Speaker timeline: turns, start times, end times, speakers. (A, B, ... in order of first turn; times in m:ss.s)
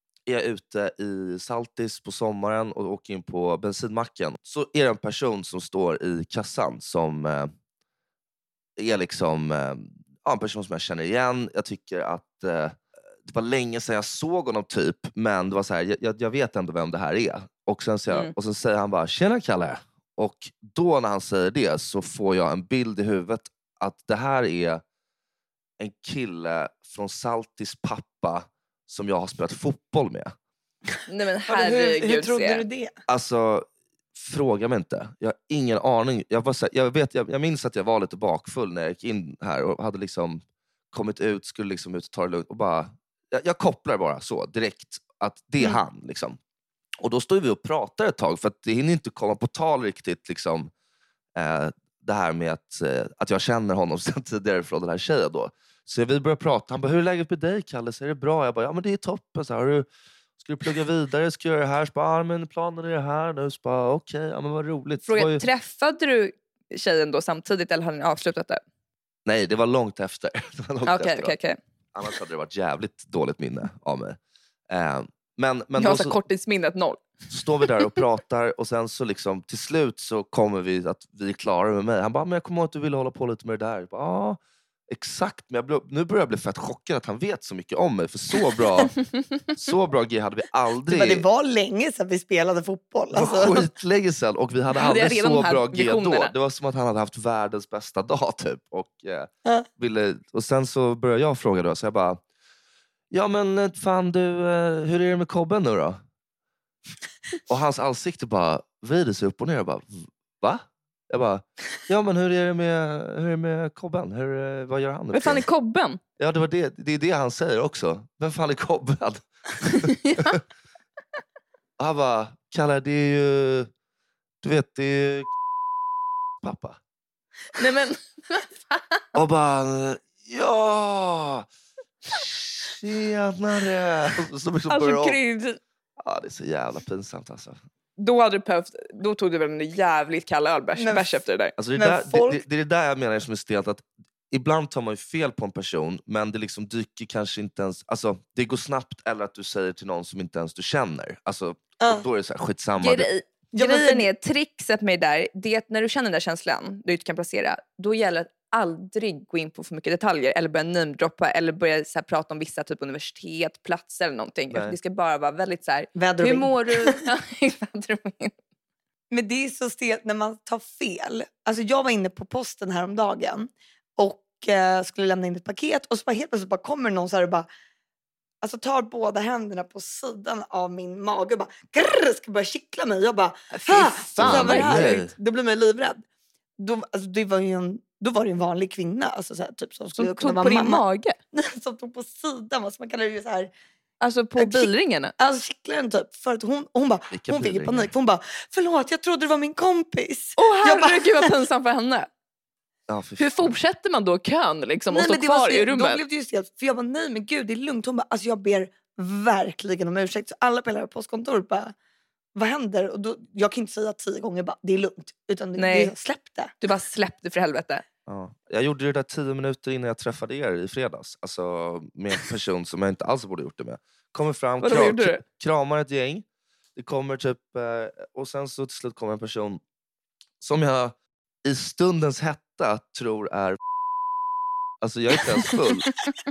0:00.3-0:07.5 A
0:08.8-0:24.8 A
0:25.8-0:30.3 A
0:31.1-0:32.6 B
0:31.5-0:33.0 C
0:33.1-0:46.4 A
0:47.0-0:50.7 A
0:51.4-0:59.9 A
1:00.4-1:05.4 A
1:05.0-1:08.6 B
1:09.3-1:11.4 A
1:10.8-1:11.6 B
1:12.0-1:14.2 A
1:14.7-1:16.2 A
1:15.8-1:17.1 B
1:17.3-1:29.0 A
1:29.6-1:31.2 A
1:30.9-1:33.7 C
1:33.1-1:42.2 A
1:34.7-1:36.3 B
1:43.1-1:46.0 A
1:47.5-1:55.4 A
1:55.1-1:56.0 B
1:56.2-2:00.4 A
1:59.8-2:00.4 B
2:01.8-2:03.7 A
2:04.4-2:05.3 A
2:06.4-2:06.8 A
2:07.5-2:09.0 B
2:09.2-2:11.5 A
2:12.1-2:15.2 A
2:14.7-2:15.6 B
2:16.0-2:17.6 A
2:18.0-2:21.6 B
2:20.8-2:21.2 C
2:21.6-2:33.1 A
2:21.8-2:22.4 C
2:31.8-2:32.1 C
2:32.8-2:48.4 B
2:33.5-2:34.1 C
2:44.5-2:44.8 A
2:46.0-2:47.1 C
2:49.1-2:57.5 C
2:58.4-3:06.0 C
3:03.5-3:05.0 B
3:04.2-3:05.1 A
3:06.6-3:13.5 C
3:10.0-3:11.2 B
3:14.0-3:15.1 B
3:14.4-3:21.3 C
3:17.1-3:17.9 A
3:20.4-3:22.1 B
3:22.9-3:23.5 A
3:23.2-3:26.0 B
3:24.9-3:31.7 C
3:32.4-3:36.5 C
3:35.6-3:35.9 B
3:36.6-3:37.8 B
3:38.1-3:46.2 A
3:44.6-3:45.2 B
3:46.8-3:49.6 A
3:50.4-3:53.6 A
3:54.8-3:55.9 A